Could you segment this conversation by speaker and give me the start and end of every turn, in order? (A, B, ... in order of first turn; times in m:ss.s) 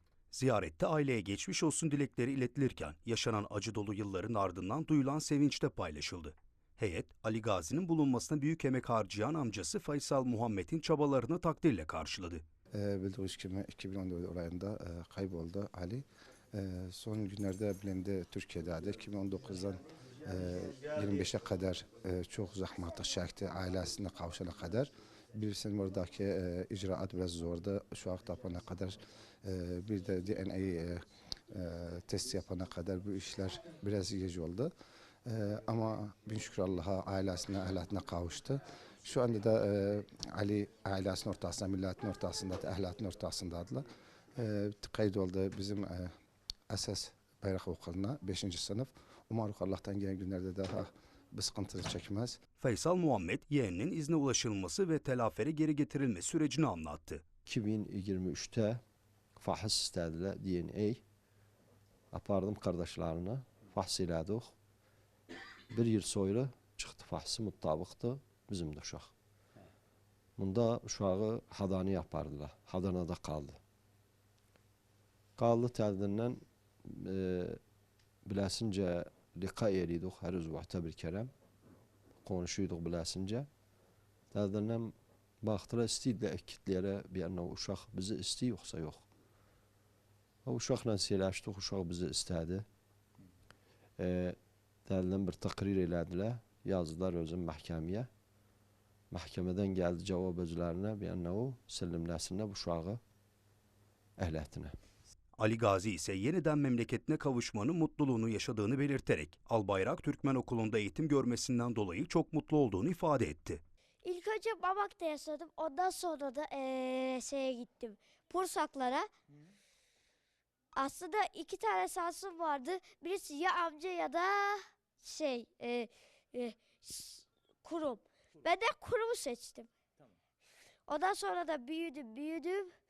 0:00.3-0:12.4 A
0:12.7-0:34.7 B
0:35.2-0:46.1 B
0:46.7-0:52.4 B
0:52.6-0:57.2 A
0:57.4-0:58.8 C
0:59.4-1:01.0 C
1:02.1-1:04.5 C
1:05.7-1:09.1 C
1:10.4-1:13.6 C
1:15.4-1:17.6 C
1:18.2-1:21.3 C
1:22.2-1:23.5 C
1:24.3-1:29.0 C
1:30.4-1:32.6 C
1:34.0-1:38.1 C
1:39.1-1:43.0 C
1:44.2-1:44.7 C
1:45.4-1:53.6 A
1:54.0-1:59.0 D
2:00.8-2:09.7 D
2:10.9-2:12.7 D